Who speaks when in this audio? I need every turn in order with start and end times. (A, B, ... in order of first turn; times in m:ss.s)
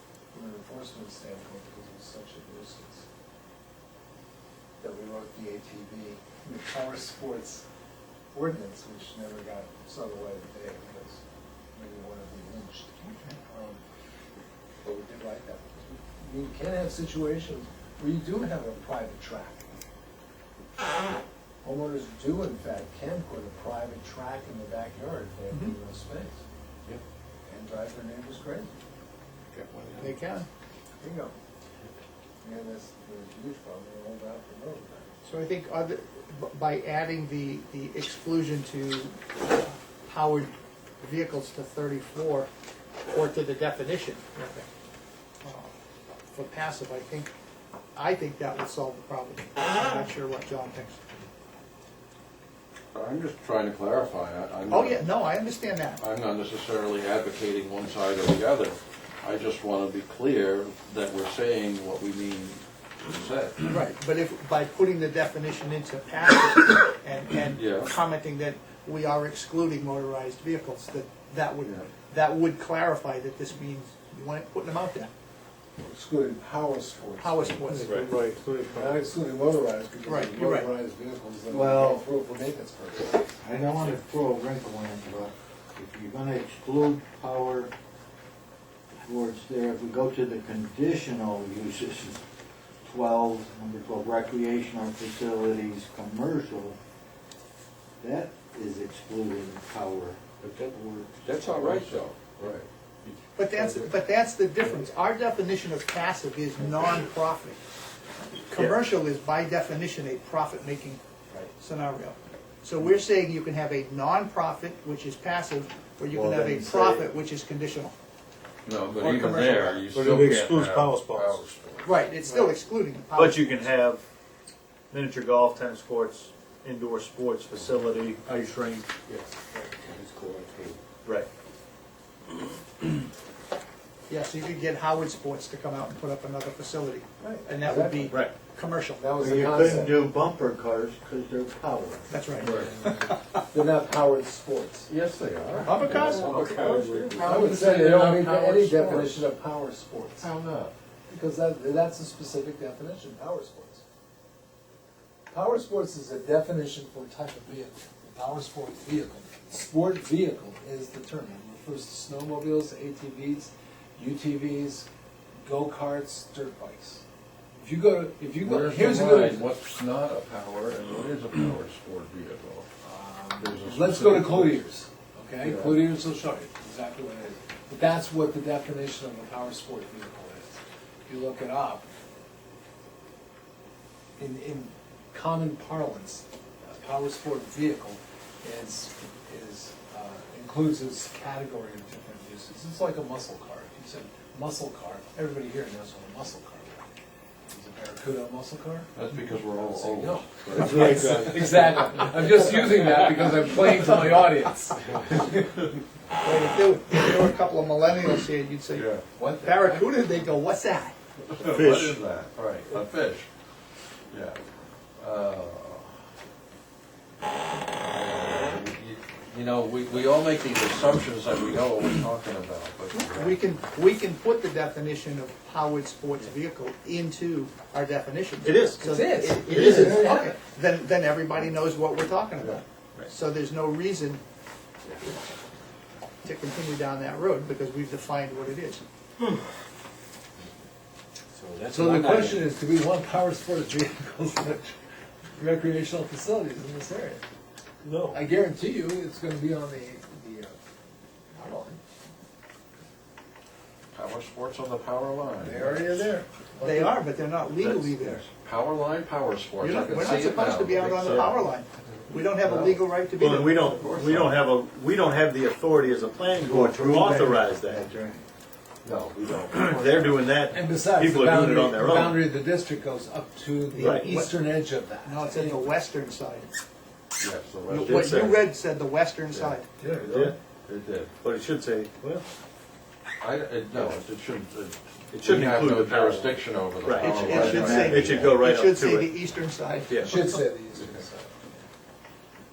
0:00.3-0:03.1 A
0:04.8-0:07.6 A
0:08.3-0:11.2 A
0:11.7-0:13.8 A
0:13.0-0:13.4 B
0:14.8-0:19.6 A
0:21.6-0:26.4 A
0:27.4-0:28.8 A
0:29.5-0:30.2 C
0:30.0-0:30.5 B
0:31.0-0:31.4 A
0:32.4-0:35.2 A
0:35.2-0:42.5 B
0:43.1-0:44.7 B
0:45.4-0:45.7 B
0:46.3-0:47.3 B
0:48.0-0:51.0 B
0:52.9-0:55.0 C
0:54.7-0:56.0 B
0:56.0-1:03.8 C
1:03.7-1:15.1 B
1:07.6-1:07.9 C
1:11.6-1:11.9 C
1:15.8-1:18.0 A
1:17.2-1:18.1 B
1:17.8-1:19.0 D
1:18.7-1:23.4 A
1:20.0-1:20.7 B
1:21.5-1:22.1 E
1:23.4-1:27.7 E
1:29.0-1:32.2 E
1:32.8-1:36.8 E
1:38.0-1:41.1 E
1:40.4-1:43.8 C
1:43.4-1:47.6 B
1:48.5-1:51.0 B
1:51.6-1:57.9 B
1:56.1-1:57.0 C
1:58.6-2:02.0 C
1:59.0-1:59.9 B
1:59.9-2:01.4 D
2:01.8-2:03.6 B
2:03.2-2:04.0 D
2:04.9-2:08.9 D
2:09.9-2:10.8 E
2:14.1-2:19.2 B
2:17.2-2:18.1 A
2:18.1-2:18.4 D
2:19.0-2:20.1 A
2:19.2-2:22.1 E
2:22.1-2:23.4 B
2:22.4-2:22.7 C
2:23.5-2:24.9 A
2:24.9-2:29.2 C
2:25.6-2:26.4 B
2:26.1-2:27.1 E
2:27.2-2:30.3 A
2:30.2-2:30.7 C
2:31.1-2:33.8 A
2:35.3-2:44.9 A
2:45.4-2:47.0 A
2:47.6-2:49.5 A
2:48.4-2:52.7 C
2:52.8-3:01.9 A
2:53.4-2:54.6 C
2:55.4-2:55.9 C
3:04.2-3:16.9 A
3:17.5-3:18.9 A
3:18.9-3:21.8 C
3:19.6-3:25.6 A
3:26.2-3:28.9 B
3:28.7-3:29.0 C
3:29.2-3:30.1 A
3:29.4-3:31.0 B
3:31.3-3:33.3 C
3:31.4-3:32.0 D
3:34.1-3:34.4 C
3:35.0-3:36.0 C
3:37.8-3:43.4 C
3:42.9-3:54.2 B
3:48.4-3:48.9 D
3:48.8-3:50.4 A
3:49.4-3:50.2 D
3:56.2-3:58.8 B
4:01.4-4:02.4 E
4:01.7-4:04.8 A
4:05.4-4:07.2 A
4:08.1-4:10.6 A
4:11.3-4:11.8 A
4:13.9-4:16.1 C
4:15.4-4:17.0 A
4:16.6-4:18.2 B
4:17.6-4:21.5 C
4:19.6-4:23.7 B
4:21.1-4:21.4 D
4:22.2-4:22.8 C
4:22.6-4:27.9 D
4:23.6-4:24.4 C
4:26.4-4:28.2 E
4:28.8-4:30.3 C
4:28.9-4:32.2 D
4:30.5-4:35.7 A
4:33.7-4:34.3 B
4:33.8-4:34.1 D
4:35.0-4:36.5 B
4:37.2-4:38.4 C
4:37.7-4:39.7 B
4:37.8-4:38.5 D
4:39.8-4:40.3 A
4:40.0-4:40.4 D
4:40.7-4:41.2 C
4:41.2-4:42.2 D
4:43.2-4:48.4 C
4:45.1-4:49.2 D
4:47.0-4:50.4 B
4:49.9-4:50.3 D
4:49.9-4:51.7 A